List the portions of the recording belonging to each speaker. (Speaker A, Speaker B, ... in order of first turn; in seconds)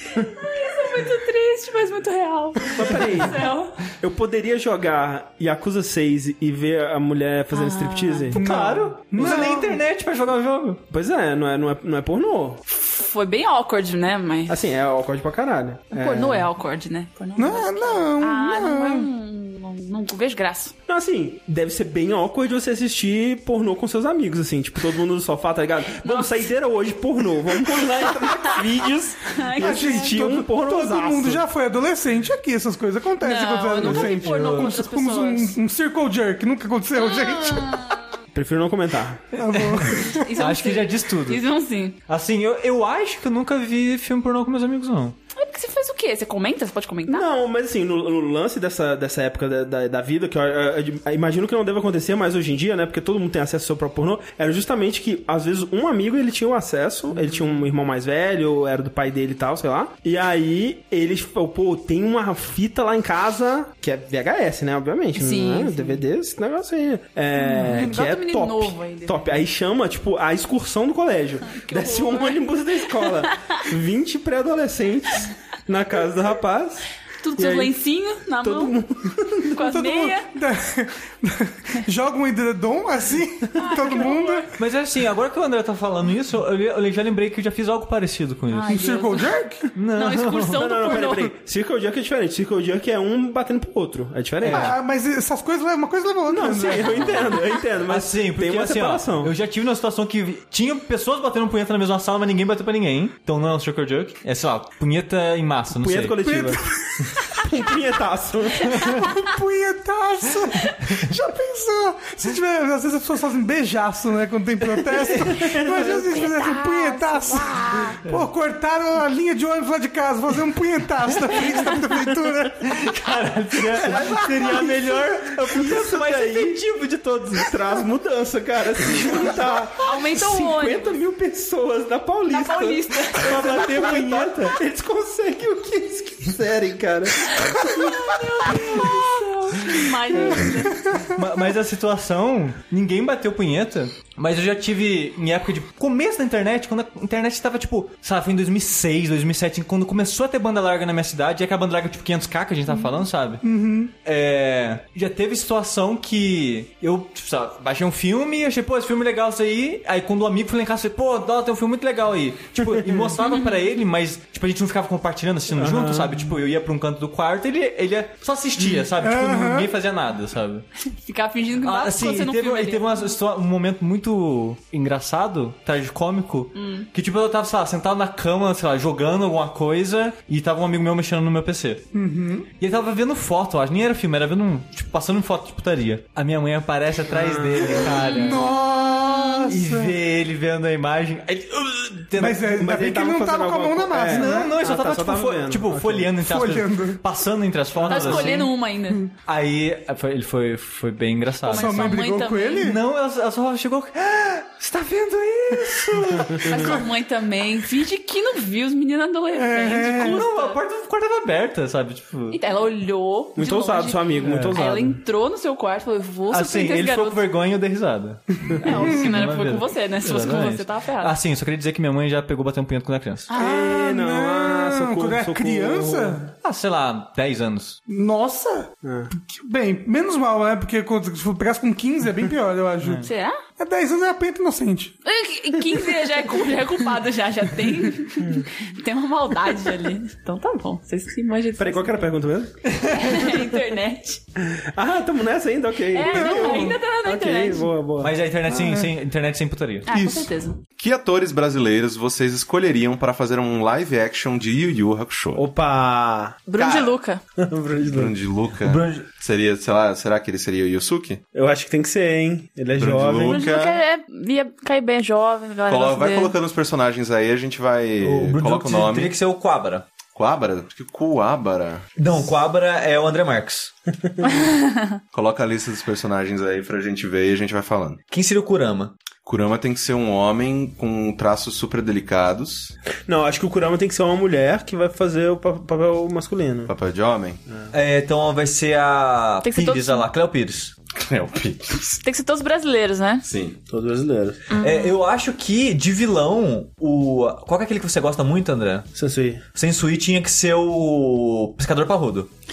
Speaker A: 0.2-3.7, 7.5-8.3, 12.7-14.6, 15.9-20.8, 26.0-26.4, 28.2-28.6, 29.3-30.2, 33.2-35.6, 37.0-38.0, 40.0-42.0, 45.4-47.3, 65.2-66.0, 67.4-69.3, 71.5-73.1, 77.2-78.8, 79.5-80.3, 83.6-84.5, 88.5-89.3, 89.9-91.3, 116.4-117.9, 129.8-131.0, 132.3-133.7, 137.6-140.8, 163.2-163.6, 170.9-173.1, 176.6-176.9, 197.9-199.0, 201.4-202.7, 206.4-210.6, 212.3-217.2, 218.6-221.2, 223.3-223.6, 233.0-233.4, 235.1-242.0, 242.9-244.2, 245.9-247.7, 249.9-250.6, 256.5-257.2, 263.3-266.3, 289.4-290.1, 292.0-293.2, 294.5-294.9
Speaker B: 2.8-3.5, 4.0-8.4, 10.9-12.6, 14.5-16.5, 20.9-31.4, 33.8-34.7, 38.3-39.2, 47.1-76.8, 77.4-77.7, 78.4-79.5, 90.5-94.8, 96.3-99.3, 105.8-109.0, 115.4-115.7, 123.9-126.6, 127.3-137.9, 162.7-163.1, 165.6-166.3, 187.1-187.9, 192.4-196.1, 197.8-198.3, 213.4-215.0, 223.3-226.2, 228.8-229.1, 241.6-242.6, 244.4-248.1, 255.4-256.4, 257.4-258.1, 261.3-263.4, 274.0-274.3, 283.1-286.7, 293.7-294.4, 298.9-299.4
Speaker C: 8.3-9.8, 17.4-19.1, 29.6-37.9, 39.4-40.3, 79.6-84.5, 88.7-89.7, 94.5-97.3, 106.2-107.2, 108.8-122.7, 140.5-141.1, 153.4-153.9, 168.8-169.7, 181.9-182.5, 187.8-189.9, 192.2-194.5, 196.2-197.0, 201.5-202.8, 209.3-210.2, 223.3-226.3, 227.9-234.9, 246.1-246.8, 248.5-248.9
Speaker D: 8.3-10.8, 39.5-41.4, 42.1-45.2, 84.6-88.8, 89.8-90.7, 94.4-94.8, 97.9-106.2, 122.6-127.6, 133.2-134.5, 141.1-153.4, 154.0-170.7, 171.6-181.8, 182.6-188.5, 189.5-192.4, 194.1-198.5, 199.2-201.9, 202.6-206.8, 210.0-212.4, 214.3-214.6, 216.3-223.3, 226.4-227.8, 248.0-249.9, 258.6-259.1, 268.0-269.9, 272.0-273.7, 278.1-278.9, 287.7-290.7, 294.6-298.9, 299.5-302.3
Speaker E: 250.8-255.5, 256.6-256.9, 257.9-261.2, 262.8-263.8, 265.7-269.2, 270.1-271.9, 275.1-278.0, 279.2-282.7, 286.7-287.4, 290.9-292.0, 293.2-293.6